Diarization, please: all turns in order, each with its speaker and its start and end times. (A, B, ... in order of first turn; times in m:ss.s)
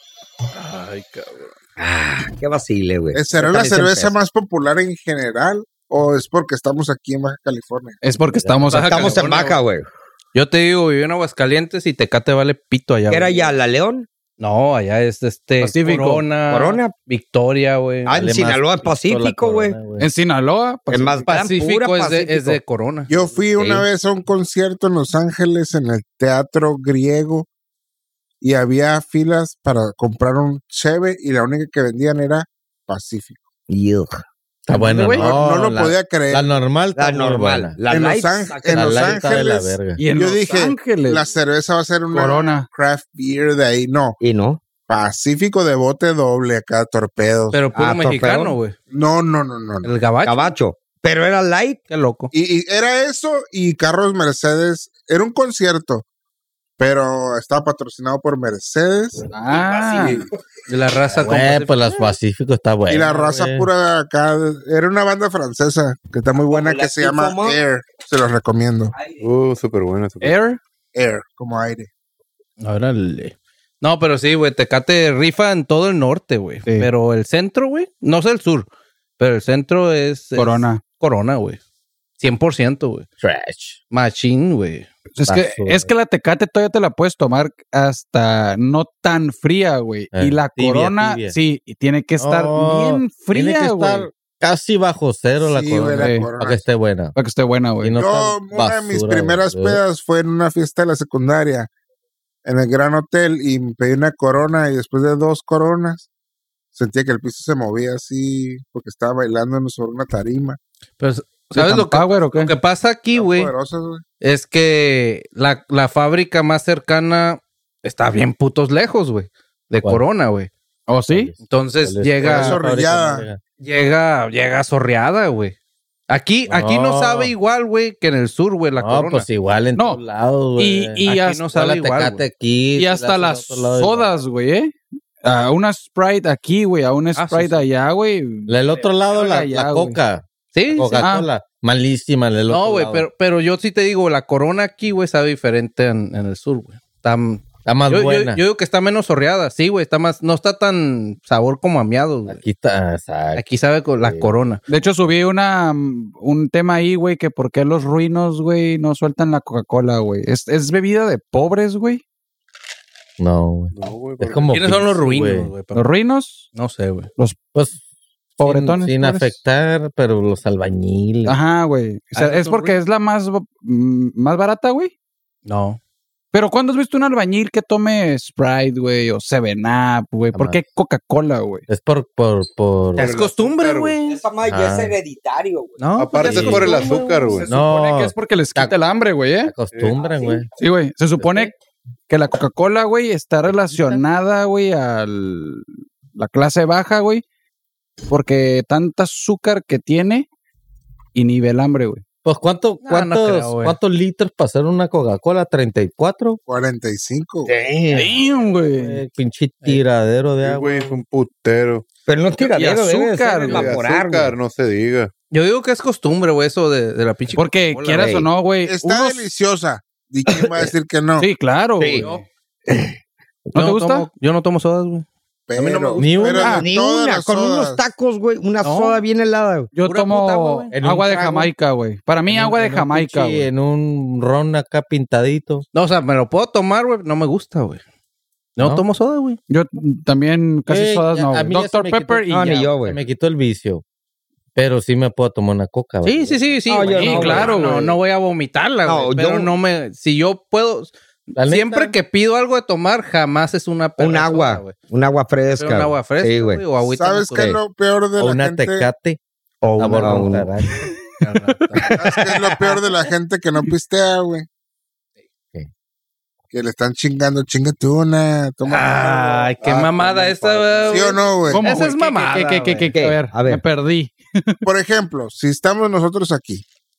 0:00.5-0:01.5 A
0:01.8-0:04.1 B
0:03.1-0:08.0 C
0:08.0-0:09.3 D
0:08.3-0:08.8 E
0:08.7-0:09.6 A
0:08.8-0:09.9 B
0:10.3-0:13.5 A
0:13.1-0:14.1 B
0:14.4-0:18.1 A
0:15.6-0:16.2 D
0:16.5-0:16.9 B
0:18.1-0:19.8 B
0:18.1-0:20.1 E
0:20.0-0:21.6 D
0:20.9-0:22.6 B
0:21.3-0:23.3 A
0:23.1-0:27.5 C
0:28.4-0:33.4 C
0:33.7-0:34.2 B
0:34.7-0:37.8 E
0:34.7-0:35.4 D
0:35.1-0:36.5 C
0:37.0-0:39.4 B
0:37.9-0:44.2 C
0:38.7-0:40.0 E
0:40.0-0:41.2 D
0:42.1-0:42.7 D
0:44.2-0:44.6 B
0:44.9-0:47.6 C
0:47.5-0:48.8 A
0:47.8-0:48.6 B
0:48.9-0:49.9 C
0:49.8-0:50.5 A
0:50.2-0:51.8 B
0:51.9-0:52.3 A
0:52.3-0:56.0 C
0:56.8-0:59.3 C
0:59.3-1:00.2 D
1:00.7-1:02.0 A
1:01.2-1:03.7 E
1:02.9-1:08.9 C
1:06.5-1:07.6 B
1:09.2-1:10.4 F
1:10.2-1:10.6 D
1:11.0-1:11.9 C
1:12.6-1:18.7 A
1:19.2-1:21.6 A
1:20.4-1:20.8 D
1:22.2-1:23.1 A
1:23.2-1:23.8 E
1:23.9-1:24.9 A
1:25.2-1:34.1 D
1:25.3-1:25.9 E
1:30.1-1:31.4 E
1:32.2-1:37.2 E
1:35.4-1:36.6 C
1:36.0-1:36.3 D
1:37.2-1:38.0 D
1:37.8-1:39.8 E
1:38.0-1:41.7 C
1:42.4-1:46.1 C
1:46.7-1:50.6 C
1:51.0-1:53.5 A
1:51.6-1:52.5 D
1:53.2-1:54.0 C
1:54.2-2:00.5 A
2:00.9-2:01.3 D
2:01.1-2:03.4 E
2:01.5-2:02.6 A
2:02.2-2:03.3 C
2:03.6-2:05.6 A
2:06.1-2:09.3 A
2:06.5-2:07.3 E
2:08.8-2:14.1 E
2:10.6-2:11.4 D
2:11.0-2:12.2 A
2:12.8-2:20.0 D
2:17.2-2:17.6 A
2:18.5-2:23.1 E
2:20.5-2:21.1 A
2:21.0-2:21.3 D
2:22.5-2:32.4 A
2:27.6-2:28.4 E
2:32.3-2:33.4 E
2:33.4-2:34.6 A
2:34.0-2:34.3 E
2:34.7-2:42.0 D
2:43.2-2:45.5 E
2:43.7-2:44.5 F
2:44.5-2:45.9 A
2:45.8-2:46.5 D
2:46.5-2:47.1 A
2:48.4-2:49.3 D
2:48.4-2:51.4 E
2:51.3-2:54.9 D
2:52.2-2:52.8 A
2:55.5-2:55.8 A
2:56.3-3:01.6 D
3:00.3-3:00.6 E
3:01.7-3:03.2 E
3:03.0-3:04.0 F
3:03.0-3:04.2 A
3:04.1-3:05.8 B
3:04.5-3:04.9 E
3:05.8-3:07.5 A
3:06.0-3:07.5 F
3:06.2-3:06.8 E
3:07.4-3:08.8 E
3:07.5-3:09.5 D
3:09.4-3:10.5 E
3:09.7-3:10.1 F
3:10.6-3:11.5 D
3:11.2-3:11.5 E
3:12.1-3:17.2 D
3:13.5-3:14.0 E
3:18.1-3:20.3 D
3:21.1-3:22.0 D
3:22.2-3:26.4 E
3:22.8-3:23.8 A
3:26.5-3:27.5 C
3:27.4-3:28.2 B
3:27.9-3:29.0 D
3:28.7-3:30.9 E
3:30.4-3:31.8 F
3:32.1-3:34.3 B
3:32.6-3:33.7 D
3:33.5-3:35.1 F
3:35.3-3:38.2 A
3:37.4-3:39.2 D
3:38.0-3:38.3 B
3:38.7-3:41.3 C
3:40.3-3:40.7 B
3:41.2-3:42.2 D
3:41.8-3:42.1 B
3:41.9-3:42.2 A
3:42.7-3:43.0 B
3:43.6-3:44.1 D
3:43.6-3:46.3 A
3:45.5-3:47.9 C
3:46.0-3:46.6 E
3:46.4-3:46.7 D
3:46.6-3:49.7 B
3:48.6-3:49.0 A
3:49.8-3:53.5 D
3:49.8-3:50.7 A
3:50.7-3:51.5 E
3:52.3-3:55.7 E
3:55.7-3:57.8 A
3:58.6-3:59.4 A
3:59.5-4:02.6 D
4:00.7-4:03.8 E
4:02.3-4:03.0 B
4:04.6-4:07.5 E
4:06.0-4:14.8 A
4:06.7-4:07.6 B
4:06.9-4:07.9 D
4:08.8-4:09.5 B
4:11.4-4:12.0 E
4:14.0-4:16.6 B
4:15.6-4:17.5 A
4:16.9-4:18.9 C
4:18.2-4:19.2 E
4:19.6-4:20.5 B
4:19.8-4:20.9 E
4:20.0-4:20.3 A
4:21.2-4:22.0 A
4:21.8-4:22.8 B
4:22.0-4:24.5 C
4:26.5-4:29.4 C
4:28.7-4:32.9 A
4:29.6-4:31.2 F
4:30.9-4:31.7 C
4:31.5-4:34.6 D
4:32.9-4:33.6 B
4:34.6-4:36.6 C